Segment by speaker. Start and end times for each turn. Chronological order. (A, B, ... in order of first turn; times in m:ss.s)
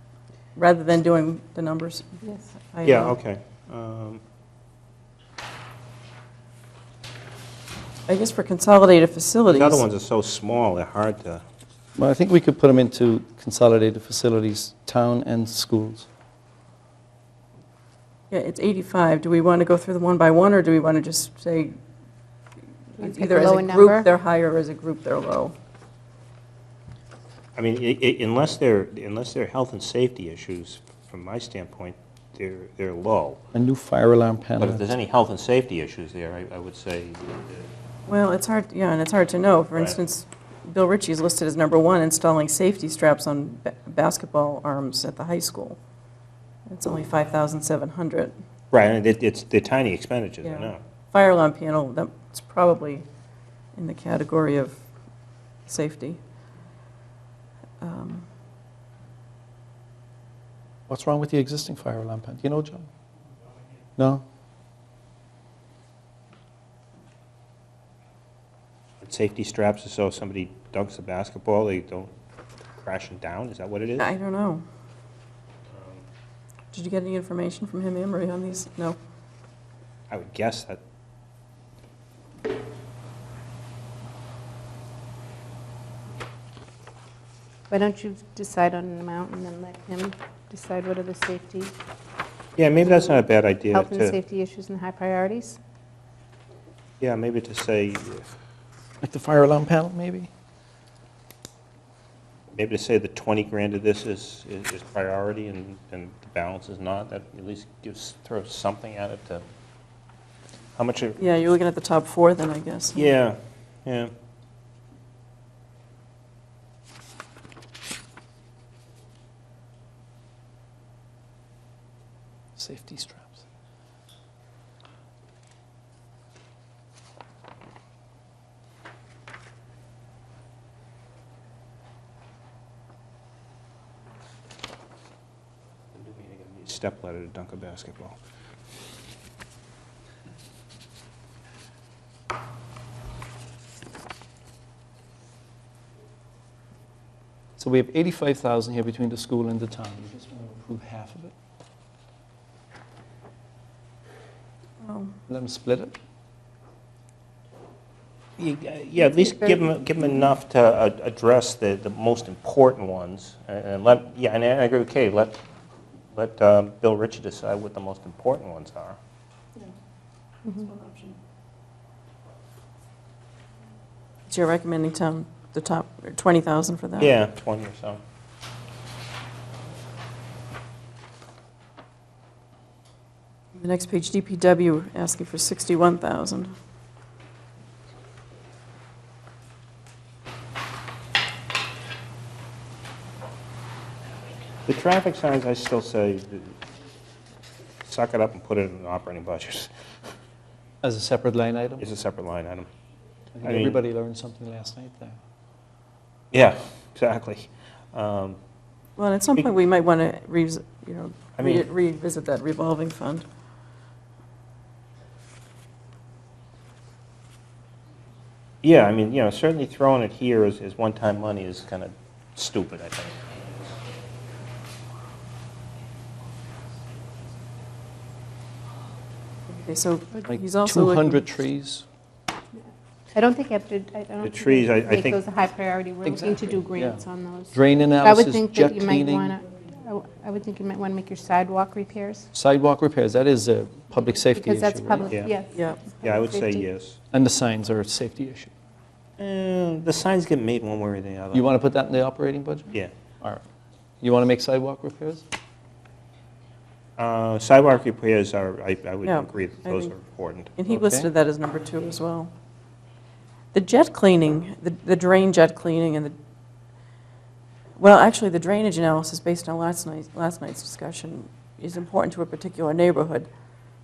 0:00.6-0:02.1 A
0:02.7-0:03.1 A
0:02.8-0:04.2 B
0:08.1-0:09.8 A
0:09.5-0:11.4 B
0:12.0-0:16.1 C
0:18.3-0:21.8 A
0:23.0-0:25.5 A
0:23.0-0:24.1 D
0:27.6-0:33.4 B
0:33.5-0:34.9 C
0:34.6-0:37.7 B
0:38.1-0:45.8 A
0:46.7-0:48.3 A
0:48.7-0:50.8 B
0:50.4-0:53.1 A
0:53.8-0:54.8 A
0:55.7-0:56.2 A
0:57.8-0:58.3 A
1:00.9-1:02.9 C
1:04.0-1:04.2 C
1:09.0-1:12.1 B
1:12.8-1:14.1 B
1:14.0-1:14.6 A
1:15.7-1:16.0 B
1:16.7-1:19.0 A
1:20.1-1:20.8 B
1:27.7-1:31.7 D
1:32.6-1:34.2 B
1:32.8-1:35.6 D
1:37.0-1:38.3 B
1:39.0-1:40.3 C
1:42.6-1:49.4 B
1:50.8-1:51.2 B
1:51.2-1:53.1 A
1:53.0-1:54.1 B
2:02.6-2:03.4 C
2:15.9-2:18.2 B
2:27.6-2:31.3 C
2:34.8-2:35.2 A
2:35.3-2:36.0 C
2:38.4-2:45.4 B
2:39.0-2:39.6 D
2:46.1-2:49.0 B
2:50.7-2:51.1 A
2:54.3-2:57.2 A
2:57.0-2:58.0 B
3:03.6-3:06.5 A
3:14.7-3:16.6 B
3:17.9-3:19.7 B
3:20.8-3:21.8 C
3:21.8-3:22.7 B
3:23.4-3:25.2 C
3:23.4-3:23.8 B
3:26.3-3:28.4 B
3:29.0-3:33.2 A
3:31.4-3:31.6 B
3:38.6-3:43.4 B
3:49.5-3:51.2 A
3:50.2-3:51.8 C
3:53.1-4:02.3 D
3:54.2-3:55.2 B
3:56.0-3:59.3 C
4:02.3-4:05.1 C
4:04.3-4:06.7 D
4:05.6-4:05.8 A
4:06.0-4:07.0 B
4:07.1-4:08.5 C
4:09.2-4:11.5 B
4:11.3-4:13.4 C
4:14.0-4:15.2 C
4:17.0-4:20.6 B
4:19.0-4:19.9 A
4:20.6-4:22.3 A
4:20.7-4:21.1 C
4:23.5-4:26.2 A
4:27.8-4:33.3 A